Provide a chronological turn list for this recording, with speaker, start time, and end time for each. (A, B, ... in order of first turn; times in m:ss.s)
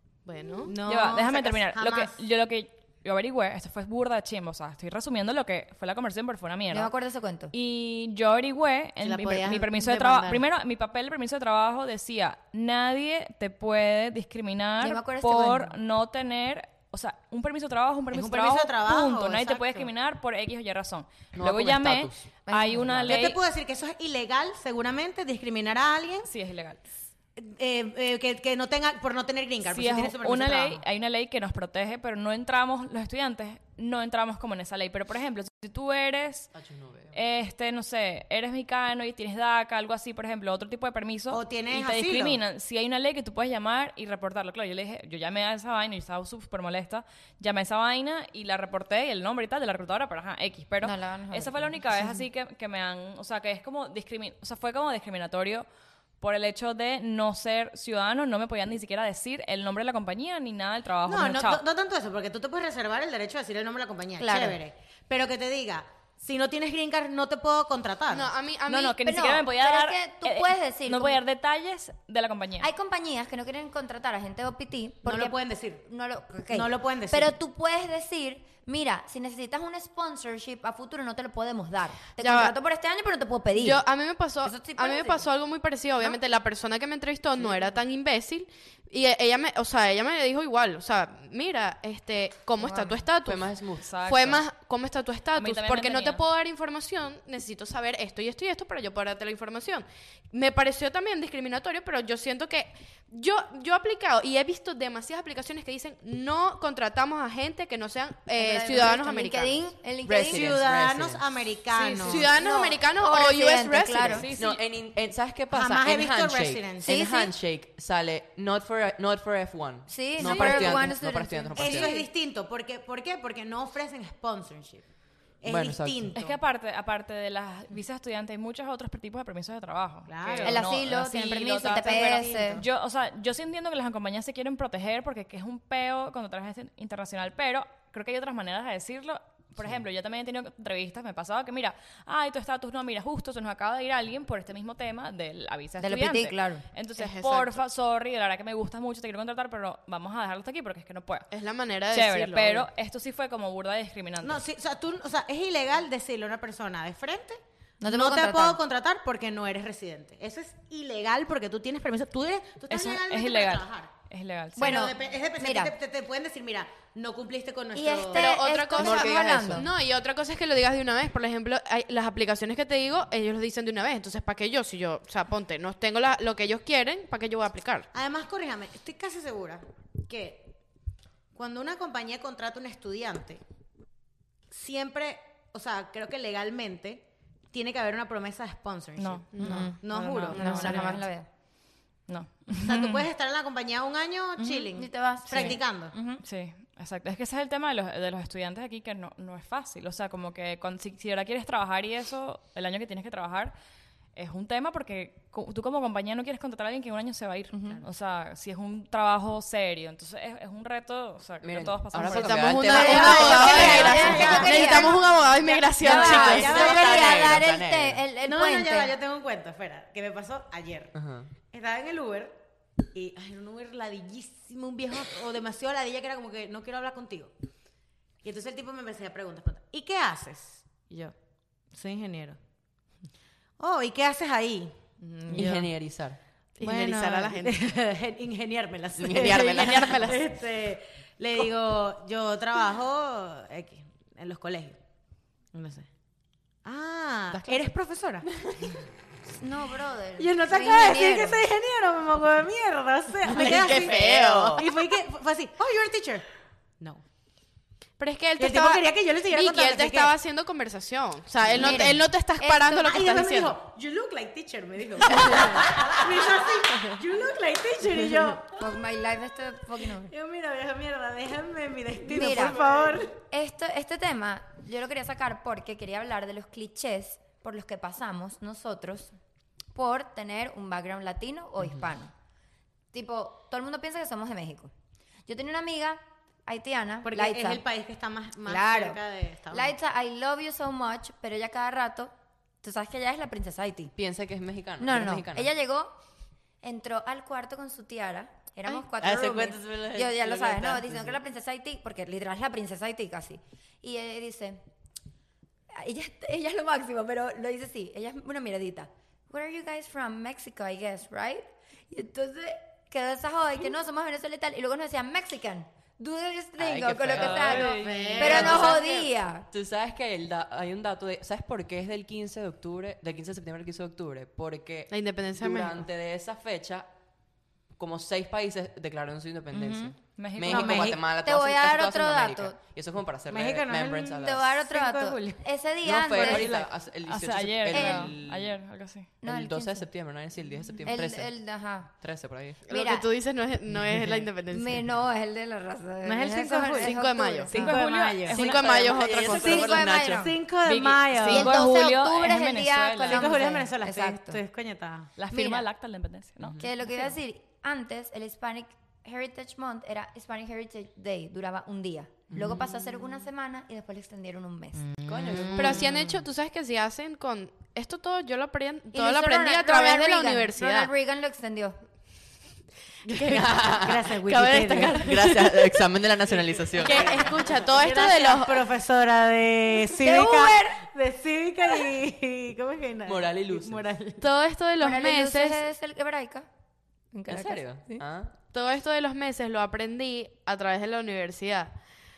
0:00.3-0:00.7 A
0:00.6-0:02.2 B
0:00.8-0:06.9 C
0:06.7-0:07.5 D
0:07.5-0:23.4 C
0:09.0-0:10.4 B
0:14.8-0:15.8 D
0:18.1-0:19.9 B
0:21.3-0:22.3 E
0:22.5-0:23.2 D
0:23.0-0:26.3 B
0:26.2-0:26.8 C
0:27.4-0:30.8 B
0:29.6-0:36.5 C
0:36.5-0:37.2 E
0:37.1-0:55.7 C
0:41.3-0:42.4 B
0:50.8-0:52.2 D
0:56.2-1:01.6 C
1:01.1-1:08.3 B
1:04.2-1:04.6 D
1:08.1-1:09.0 A
1:08.7-1:12.7 C
1:09.0-1:11.2 D
1:12.6-1:23.8 D
1:15.0-1:15.8 B
1:16.5-1:17.3 B
1:22.2-1:22.6 A
1:23.5-1:49.6 A
1:24.4-1:25.3 D
1:33.2-1:33.9 E
1:33.8-1:34.4 C
1:35.4-1:36.2 C
1:48.4-1:50.6 D
1:50.1-1:51.2 E
1:50.2-1:52.3 B
1:52.0-1:54.3 A
1:52.0-1:54.3 D
1:54.1-1:54.6 C
1:54.3-2:02.0 E
1:55.5-1:57.0 B
1:56.8-1:57.3 D
1:59.9-2:02.1 D
2:00.2-2:00.8 B
2:01.6-2:04.8 B
2:05.4-2:06.4 B
2:05.5-2:06.2 E
2:06.2-2:31.3 C
2:10.1-2:10.7 B
2:10.4-2:12.6 D
2:11.4-2:12.7 B
2:25.8-2:26.6 D
2:27.0-2:27.6 A
2:31.3-2:32.7 A
2:31.9-2:34.4 C
2:34.2-2:43.9 B
2:37.8-2:38.6 D
2:42.7-2:44.9 C
2:44.6-2:48.4 B
2:44.6-2:45.7 D
2:47.7-2:49.7 D
2:48.1-2:57.9 A
2:48.8-2:49.7 E
2:57.9-3:00.5 B
3:01.3-3:03.4 B
3:04.5-3:11.0 B
3:09.0-3:11.0 C
3:09.4-3:09.7 A
3:09.4-3:11.3 D
3:12.1-3:13.1 C
3:12.5-3:16.0 B
3:14.4-3:16.2 D
3:16.2-3:23.6 C
3:24.2-3:32.8 C
3:27.5-3:27.8 D
3:31.4-3:34.4 E
3:32.0-3:36.7 A
3:32.7-3:39.0 D
3:32.7-3:37.5 B
3:36.0-3:38.0 E
3:38.2-3:42.4 B
3:41.0-3:41.3 E
3:42.9-3:47.3 B
3:48.2-3:51.1 B
3:51.7-3:52.4 B
3:53.6-3:55.7 B
3:55.3-3:56.2 E
3:55.3-3:55.6 A
3:56.6-3:57.6 A
3:56.6-4:04.8 B
3:59.0-4:00.2 E
4:05.5-4:05.9 B
4:06.6-4:08.3 B
4:07.3-4:07.7 E
4:08.3-4:08.8 E
4:09.4-4:11.4 D
4:10.2-4:16.3 B
4:13.3-4:14.7 A
4:13.4-4:14.6 E
4:18.0-4:23.6 A
4:18.4-4:20.1 B
4:21.6-4:22.9 D
4:21.6-4:21.9 B
4:22.8-4:28.6 B
4:28.6-4:30.1 D
4:30.0-4:33.2 B
4:32.1-4:32.6 D
4:33.2-4:39.1 D
4:39.7-4:42.1 D
4:42.9-4:44.7 D
4:45.3-4:47.6 D
4:47.0-4:49.7 B
4:48.4-4:49.0 D
4:49.5-4:53.9 D
4:54.0-4:55.5 E
4:54.8-4:55.9 D
4:56.6-5:04.6 D
4:58.8-5:01.2 E
5:05.7-5:19.5 D
5:16.6-5:18.9 E
5:17.2-5:18.8 C
5:17.5-5:18.8 B
5:19.5-5:26.9 E
5:24.9-5:25.8 A
5:27.8-5:34.5 E
5:29.5-5:29.9 D
5:30.2-5:30.9 C
5:30.4-5:31.0 B
5:31.2-5:32.6 D
5:33.3-5:35.4 B
5:34.1-5:36.6 D
5:35.8-5:38.5 E
5:36.2-5:36.7 B
5:37.0-5:39.1 C
5:37.7-5:38.1 D
5:39.2-5:39.9 D
5:39.2-5:41.3 E
5:40.8-5:41.9 D
5:42.0-5:42.6 E
5:42.7-5:44.9 A
5:42.7-5:43.1 D
5:44.5-5:47.8 D
5:46.1-5:47.0 B
5:46.1-5:47.5 A
5:47.5-5:48.7 C
5:47.5-5:51.5 B
5:48.3-5:49.8 A
5:48.4-5:50.3 E
5:49.1-5:50.4 D
5:50.6-5:53.3 C
5:51.3-5:54.4 D
5:53.0-5:55.1 B
5:55.2-5:56.7 C
5:55.3-5:55.6 D
5:56.4-5:56.7 E
5:56.6-6:04.9 D
6:02.3-6:02.6 E
6:04.8-6:05.8 B
6:05.0-6:06.1 E
6:05.6-6:10.9 A
6:08.9-6:11.8 D
6:13.1-6:15.2 B
6:13.2-6:17.3 E
6:14.3-6:15.8 A
6:16.7-6:24.3 B
6:16.7-6:18.7 A
6:20.0-6:20.8 D
6:23.0-6:23.8 E
6:24.2-6:25.6 A
6:24.8-6:26.5 D
6:27.1-6:28.0 D
6:27.3-6:28.3 E
6:28.5-6:31.7 A